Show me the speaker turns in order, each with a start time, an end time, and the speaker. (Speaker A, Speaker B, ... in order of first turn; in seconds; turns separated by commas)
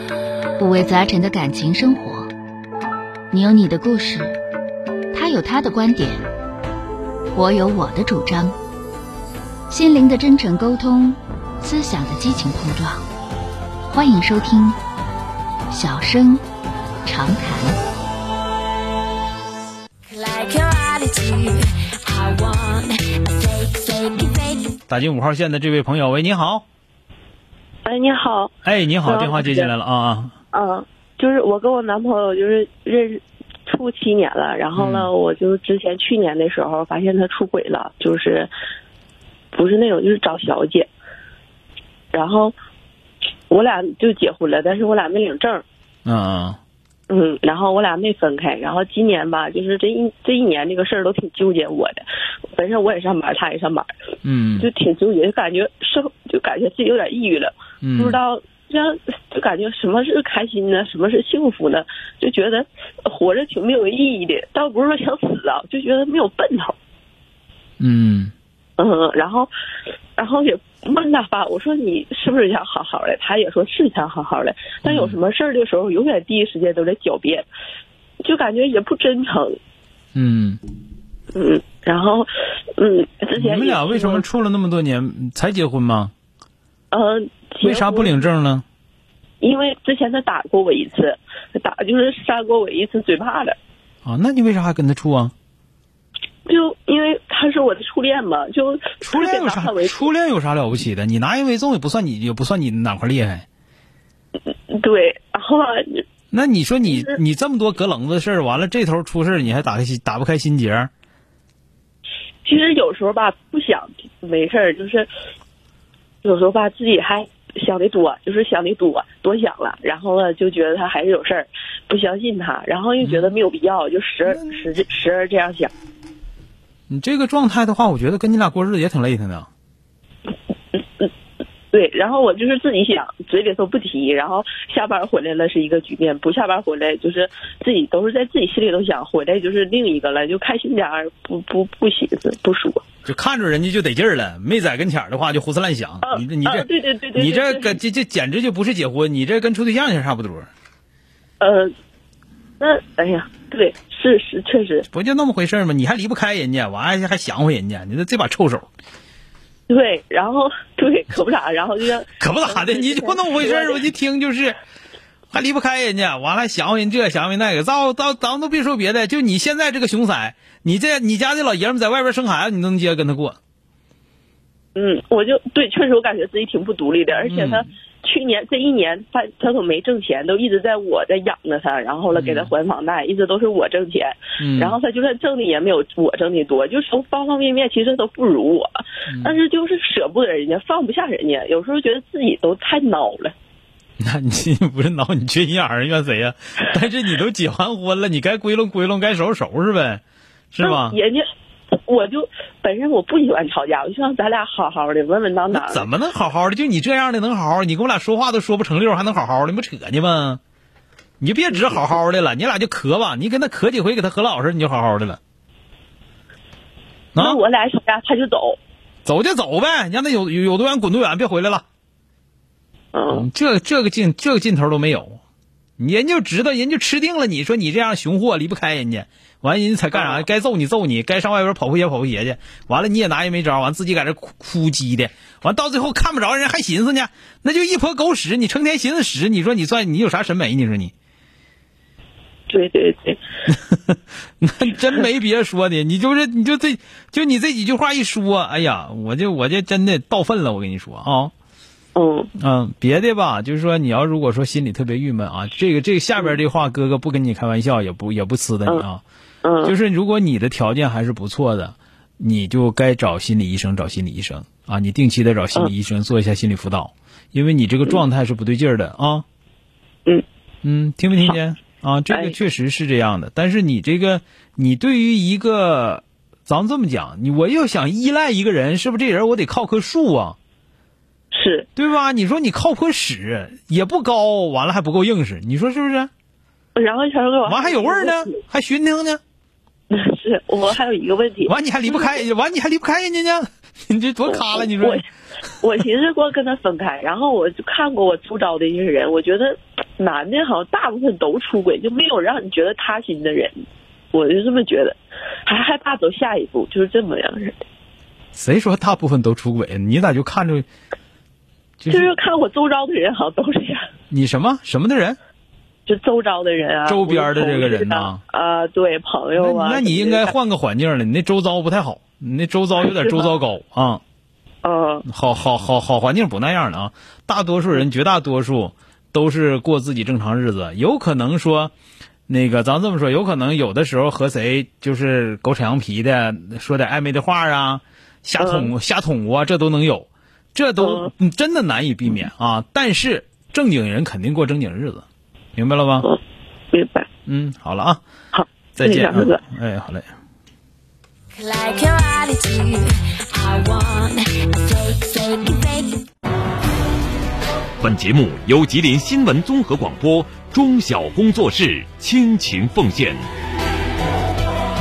Speaker A: 0.6-2.3, Speaker A: 3.3-4.4, Speaker A: 5.1-6.3, Speaker A: 7.3-8.6, Speaker A: 9.7-13.1, Speaker A: 13.9-14.8, Speaker A: 15.7-16.4, Speaker A: 17.1-17.8, Speaker B: 20.1-24.7, Speaker C: 24.9-26.6, Speaker D: 27.8-29.7, Speaker C: 28.6-30.3, Speaker D: 30.5-38.5, Speaker C: 34.7-35.1, Speaker D: 39.5-40.9, Speaker D: 42.1-42.5, Speaker D: 43.5-45.6, Speaker C: 46.0-46.6, Speaker D: 47.1-53.9, Speaker C: 54.2-54.7, Speaker D: 54.6-66.8, Speaker C: 57.8-58.2, Speaker C: 67.8-68.3, Speaker D: 68.8-69.5, Speaker D: 70.2-77.5, Speaker C: 74.8-75.2, Speaker D: 78.2-79.6, Speaker C: 80.1-80.6, Speaker D: 81.3-84.2, Speaker C: 83.3-86.1, Speaker D: 86.9-88.2, Speaker C: 87.6-88.6, Speaker D: 89.4-93.5, Speaker C: 94.0-95.3, Speaker D: 96.5-100.1, Speaker C: 99.0-103.5, Speaker D: 104.7-106.0, Speaker C: 106.3-110.9, Speaker D: 106.9-107.2, Speaker D: 112.4-115.1, Speaker D: 116.2-125.7, Speaker C: 123.0-123.3, Speaker C: 124.2-124.6, Speaker C: 126.9-129.5, Speaker D: 130.7-131.1, Speaker D: 131.7-142.8, Speaker C: 143.0-150.5, Speaker D: 146.0-147.8, Speaker D: 151.4-151.7, Speaker D: 152.6-154.9, Speaker C: 154.9-158.7, Speaker D: 159.7-163.8, Speaker C: 162.2-164.6, Speaker C: 165.3-173.4, Speaker D: 174.7-188.7, Speaker C: 177.2-177.7, Speaker C: 182.1-182.5, Speaker C: 184.4-184.8, Speaker C: 189.1-189.4, Speaker D: 189.2-193.3, Speaker C: 194.0-201.0, Speaker D: 200.6-205.9, Speaker C: 205.5-210.4, Speaker C: 211.2-215.2, Speaker D: 211.5-211.8, Speaker D: 217.2-218.6, Speaker C: 219.0-221.6, Speaker D: 222.9-223.3, Speaker C: 223.1-225.2, Speaker C: 225.8-240.9, Speaker D: 229.9-230.2, Speaker D: 242.5-243.2, Speaker C: 243.5-251.3, Speaker D: 251.9-252.3, Speaker C: 252.4-259.0, Speaker D: 259.4-259.7, Speaker C: 259.6-269.2, Speaker C: 270.6-280.4, Speaker D: 272.1-272.4, Speaker D: 281.3-281.7, Speaker C: 281.8-286.1, Speaker D: 286.8-288.4, Speaker C: 287.4-289.2, Speaker D: 289.9-292.2, Speaker C: 291.4-295.0, Speaker D: 294.3-295.0, Speaker D: 295.6-303.6, Speaker D: 304.1-307.6, Speaker C: 308.3-310.6, Speaker C: 311.8-312.1, Speaker D: 311.9-313.8, Speaker C: 314.1-315.2, Speaker D: 315.9-320.3, Speaker C: 316.9-318.2, Speaker C: 319.3-324.0, Speaker D: 322.9-323.3, Speaker D: 324.6-325.0, Speaker C: 325.0-331.7, Speaker C: 332.3-345.0, Speaker D: 338.4-338.7, Speaker D: 340.8-341.1, Speaker C: 345.6-346.1, Speaker D: 346.7-347.1, Speaker C: 347.3-348.0, Speaker D: 348.3-349.4, Speaker C: 348.7-350.1, Speaker B: 351.3-356.0, Speaker E: 357.8-363.3